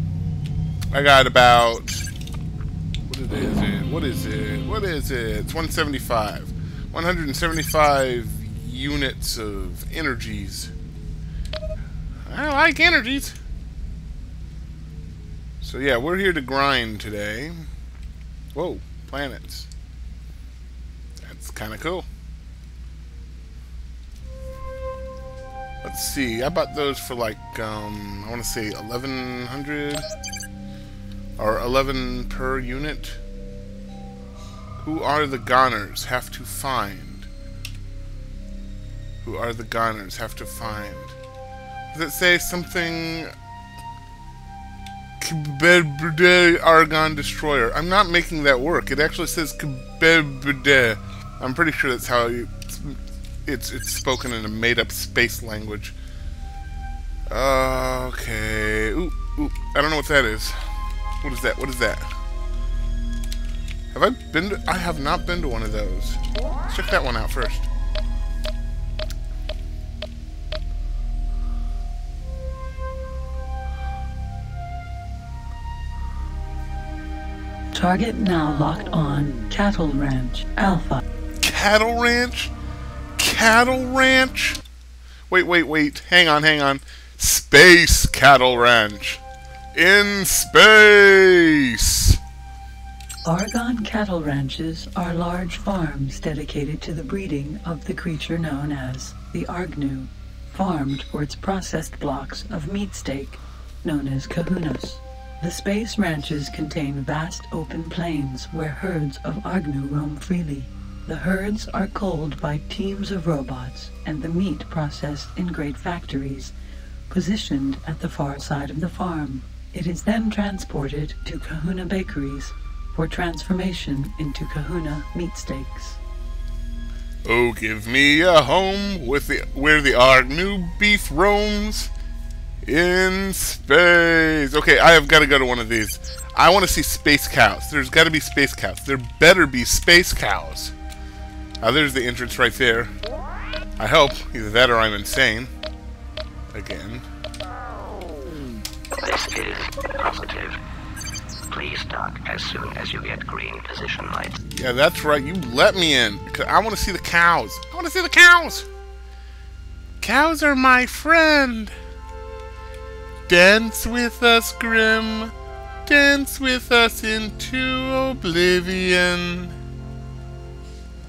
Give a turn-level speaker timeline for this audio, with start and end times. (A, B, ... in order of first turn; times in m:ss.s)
0:00.9-0:02.1 A
0:03.1-0:10.7 A
0:12.3-0:13.4 A
0:15.6-0:17.7 A
0:18.5-0:19.7 A
0:21.2-0:22.1 A
0:25.8-0:30.1 A
0:31.4-0:33.2 A
0:34.8-0:37.3 A
0:39.2-0:41.2 A
0:41.9-0:43.3 A
0:45.2-0:56.0 A
0:57.3-1:00.6 A
1:01.2-1:02.1 A
1:03.9-1:07.7 A
1:17.7-1:21.0 B
1:21.4-1:22.5 A
1:23.2-1:24.6 A
1:25.3-1:29.2 A
1:29.7-1:32.2 A
1:33.2-1:56.5 B
1:57.1-2:06.0 B
2:07.2-2:11.9 A
2:12.6-2:20.8 A
2:21.6-2:22.9 A
2:23.8-2:25.5 A
2:26.5-2:27.1 A
2:29.0-2:30.6 C
2:31.5-2:34.4 C
2:34.5-2:38.7 A
2:40.0-2:41.8 A
2:43.3-2:45.3 A
2:45.9-2:49.6 A